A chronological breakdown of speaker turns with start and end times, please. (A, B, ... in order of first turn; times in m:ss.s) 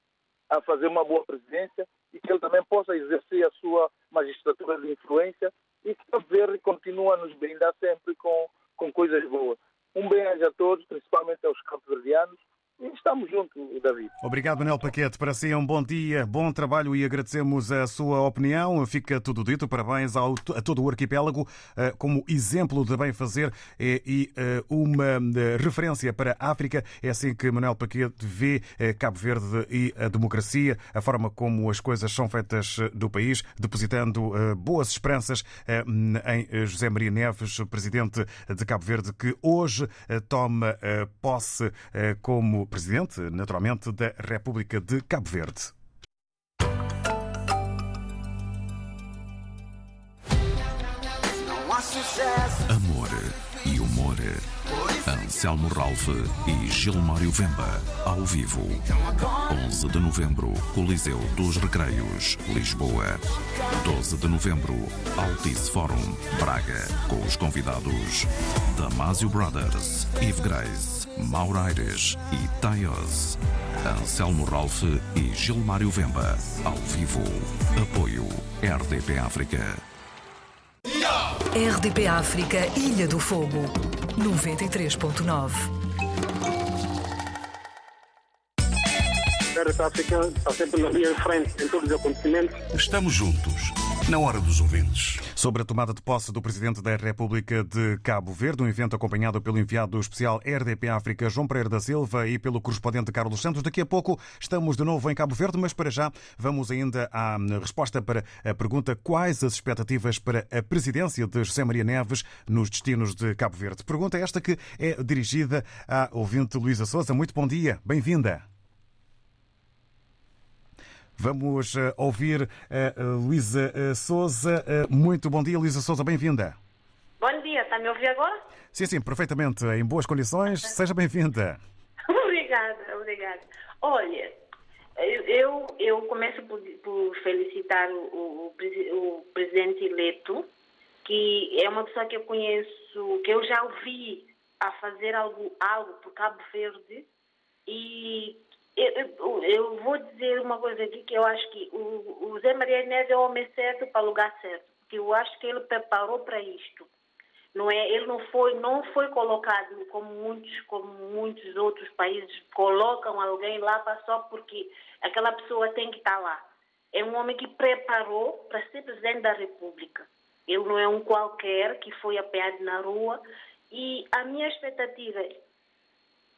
0:00.5-0:14.1 A
0:14.2-0:45.7 B
0:52.7-0:54.4 C
0:55.0-1:19.8 C
1:21.5-1:25.7 D
1:29.5-1:32.6 E
1:32.7-1:35.2 C
1:35.3-1:58.4 B
2:01.2-2:06.6 B
2:07.2-2:08.4 F
2:08.7-2:11.6 B
2:12.1-2:14.4 F
2:15.0-2:20.5 F
2:21.0-2:27.1 F
2:27.7-2:36.9 F
2:37.6-2:55.4 F